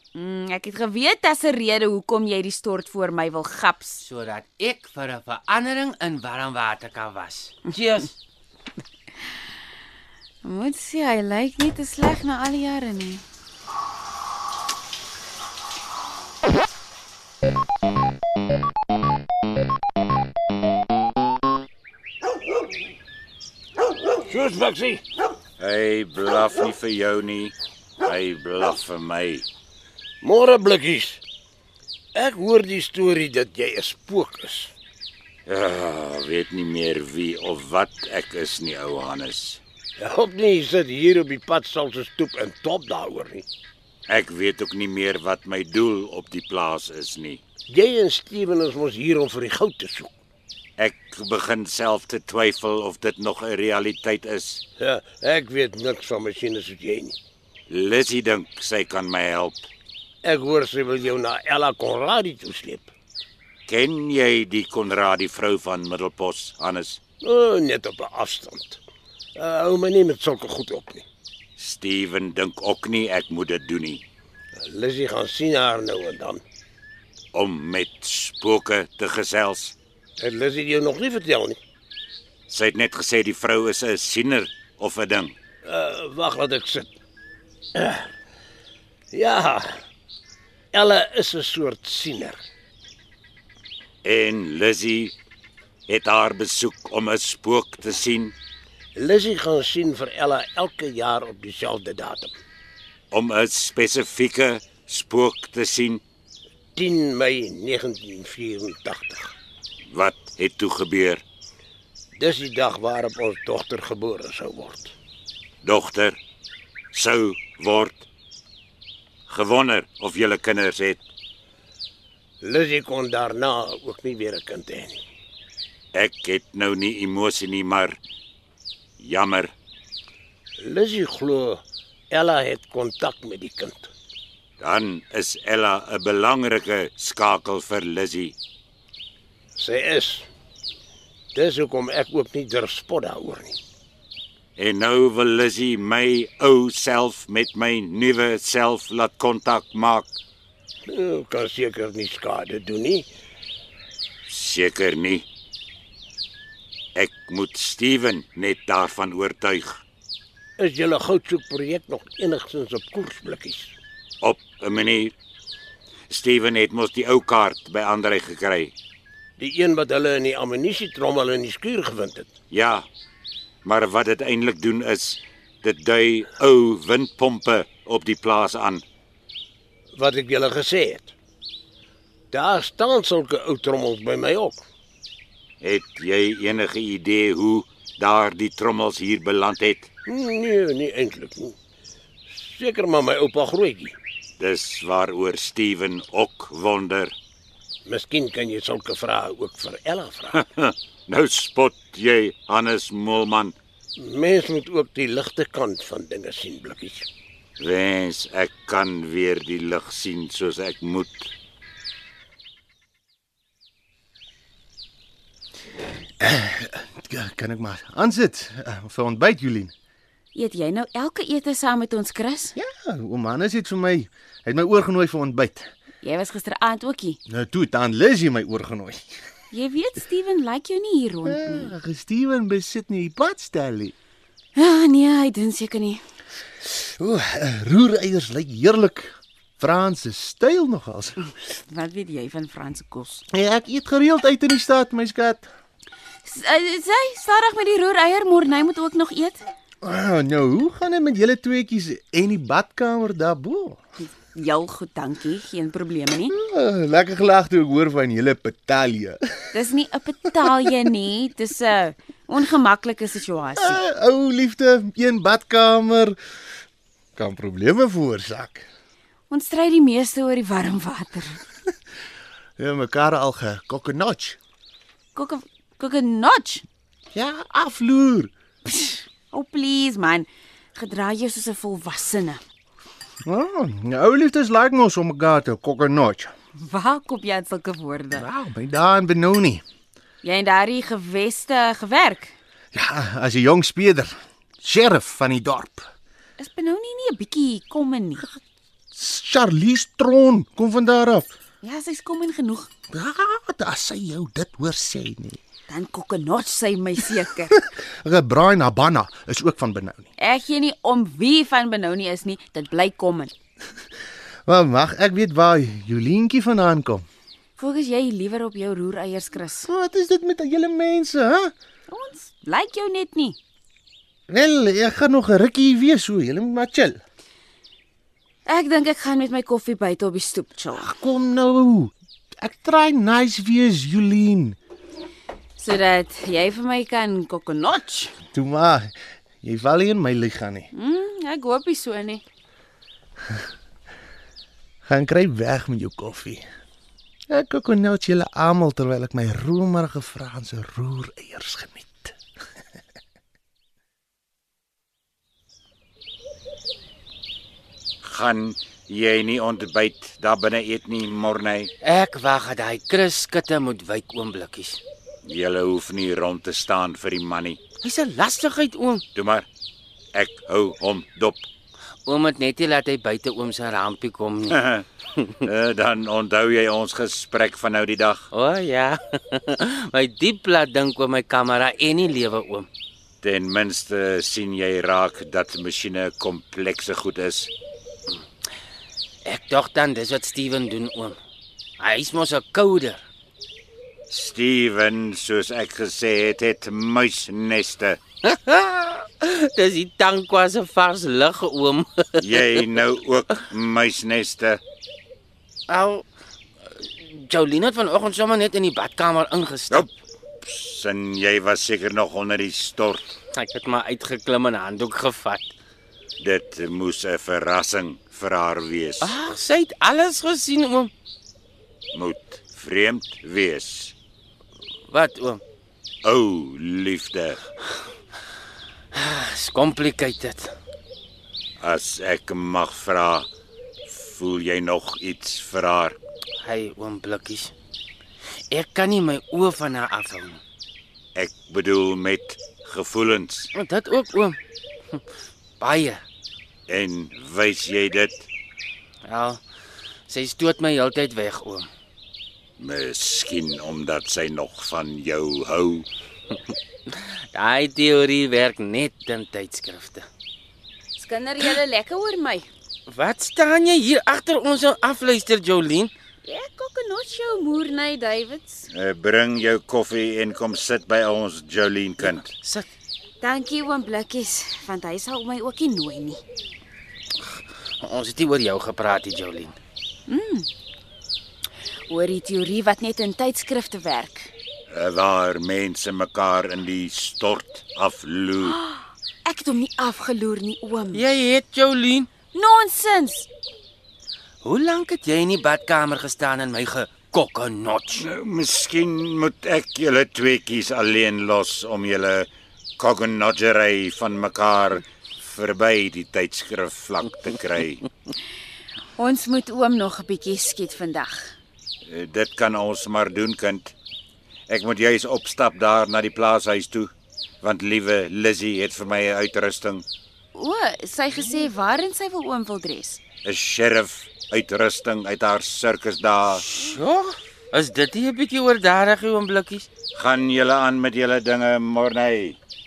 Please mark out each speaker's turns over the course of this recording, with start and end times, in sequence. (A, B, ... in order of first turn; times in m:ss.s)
0:00.1-0:04.0 A
0:04.0-0:08.2 B
0:10.4-0:13.2 A
0:24.3-0:25.0 C
0:25.6-0:29.5 D
0:30.2-0:31.2 C
0:32.2-0:34.7 C
0:35.5-0:39.6 D
0:40.0-0:43.4 C
0:44.1-0:47.4 D
0:47.7-0:50.1 C
0:50.8-0:54.6 D
0:54.8-0:57.2 C
0:57.7-0:59.6 D
1:00.3-1:02.9 C
1:03.7-1:07.0 D
1:07.2-1:08.8 C
1:09.4-1:11.0 C
1:11.6-1:14.0 D
1:14.6-1:16.4 C
1:17.3-1:19.8 D
1:20.2-1:21.6 C
1:22.5-1:25.3 D
1:25.7-1:26.9 C
1:27.8-1:28.1 C
1:29.1-1:29.7 C
1:30.7-1:32.4 C
1:34.0-1:35.2 D
1:35.9-1:38.3 D
1:39.0-1:42.3 C
1:43.1-1:46.0 D
1:46.8-1:49.3 C
1:49.9-1:51.2 D
1:52.2-1:54.9 C
1:55.6-1:56.2 D
1:56.9-1:58.0 D
1:59.3-2:01.0 D
2:02.4-2:05.0 C
2:05.9-2:08.0 D
2:09.0-2:09.5 D
2:10.6-2:11.6 C
2:12.1-2:13.9 C
2:14.6-2:18.3 D
2:19.6-2:20.2 C
2:21.4-2:23.6 C
2:24.6-2:30.1 D
2:30.9-2:33.1 C
2:34.3-2:35.3 D
2:37.0-2:39.8 D
2:40.6-2:43.7 C
2:44.2-2:45.1 D
2:46.1-2:48.7 D
2:49.4-2:52.3 C
2:52.5-2:52.9 D
2:53.6-2:58.8 D
3:00.0-3:01.1 C
3:02.3-3:04.6 C
3:05.6-3:09.9 D
3:10.1-3:11.5 C
3:12.3-3:13.9 C
3:14.4-3:17.1 D
3:17.9-3:20.3 C
3:20.3-3:23.6 D
3:24.0-3:27.0 C
3:27.6-3:31.3 D
3:36.2-3:39.7 E
3:40.3-3:42.6 A
3:42.6-3:45.7 E
3:46.0-3:47.2 A
3:47.3-3:49.1 E
3:49.5-3:51.7 A
3:51.3-3:53.9 E
3:54.6-3:56.0 A
3:56.7-4:01.2 E
4:01.4-4:03.2 A
4:03.3-4:05.5 E
4:06.2-4:09.4 A
4:09.8-4:13.8 E
4:14.1-4:16.4 A
4:16.3-4:19.4 E
4:19.5-4:23.8 A
4:23.6-4:26.2 E
4:27.2-4:28.7 E
4:29.3-4:31.4 A
4:32.6-4:34.4 E
4:35.1-4:36.6 A
4:37.1-4:38.3 E
4:38.7-4:42.4 A
4:43.2-4:46.3 E
4:46.6-4:48.3 A
4:48.1-4:49.6 E
4:50.2-4:52.3 A
4:52.7-4:55.9 E
4:56.4-4:58.2 A
4:58.9-5:01.3 E
5:01.6-5:02.7 A
5:02.9-5:05.4 E
5:05.7-5:07.6 A
5:07.7-5:10.1 E
5:10.2-5:13.3 A
5:14.5-5:17.0 E
5:17.6-5:19.7 A
5:19.7-5:21.5 E
5:21.9-5:23.4 A
5:24.3-5:27.0 E
5:28.5-5:30.9 A
5:30.8-5:34.6 E
5:35.6-5:38.2 A
5:38.3-5:40.7 E
5:40.8-5:42.2 A
5:44.9-5:46.4 E
5:47.3-5:52.2 E
5:58.0-6:01.7 D
6:01.8-6:04.8 B
6:05.2-6:07.6 D
6:07.8-6:09.0 B
6:09.2-6:09.5 D
6:10.1-6:11.5 D
6:12.1-6:14.6 B
6:14.5-6:14.8 D
6:15.4-6:18.3 D
6:18.3-6:22.7 B
6:23.2-6:27.5 D
6:29.2-6:31.2 B
6:31.8-6:33.0 B
6:34.1-6:38.0 D
6:38.2-6:42.4 B
6:42.2-6:44.6 D
6:45.7-6:46.0 B
6:46.7-6:49.9 B
6:50.4-6:53.2 D
6:53.3-6:55.5 B
6:56.2-6:59.1 D
6:59.0-7:00.9 B
7:01.9-7:04.0 D
7:04.9-7:05.4 B
7:06.0-7:07.4 D
7:08.9-7:10.5 B
7:11.6-7:13.3 D
7:13.9-7:16.0 D
7:16.4-7:17.5 B
7:18.5-7:20.4 B
7:21.2-7:23.5 D
7:23.5-7:24.4 B
7:25.6-7:26.0 B
7:26.7-7:28.3 D
7:29.0-7:29.4 B
7:30.1-7:31.7 B
7:32.6-7:35.9 D
7:37.3-7:40.1 B
7:41.0-7:42.5 A
7:42.9-7:45.9 B
7:46.2-7:48.7 A
7:48.7-7:52.3 D
7:52.0-7:52.7 B
7:53.2-7:56.2 A
7:57.8-7:59.6 B
8:00.1-8:00.5 A
8:01.9-8:04.3 A
8:04.7-8:08.6 D
8:08.5-8:11.1 A
8:10.9-8:12.1 B
8:12.3-8:13.3 A
8:14.4-8:18.0 B
8:18.0-8:27.8 D
8:29.0-8:31.4 A
8:31.8-8:33.8 D
8:34.5-8:36.9 D
8:37.4-8:39.9 D
8:40.3-8:43.0 A
8:43.2-8:46.4 D
8:46.4-8:49.7 B
8:49.9-8:52.4 D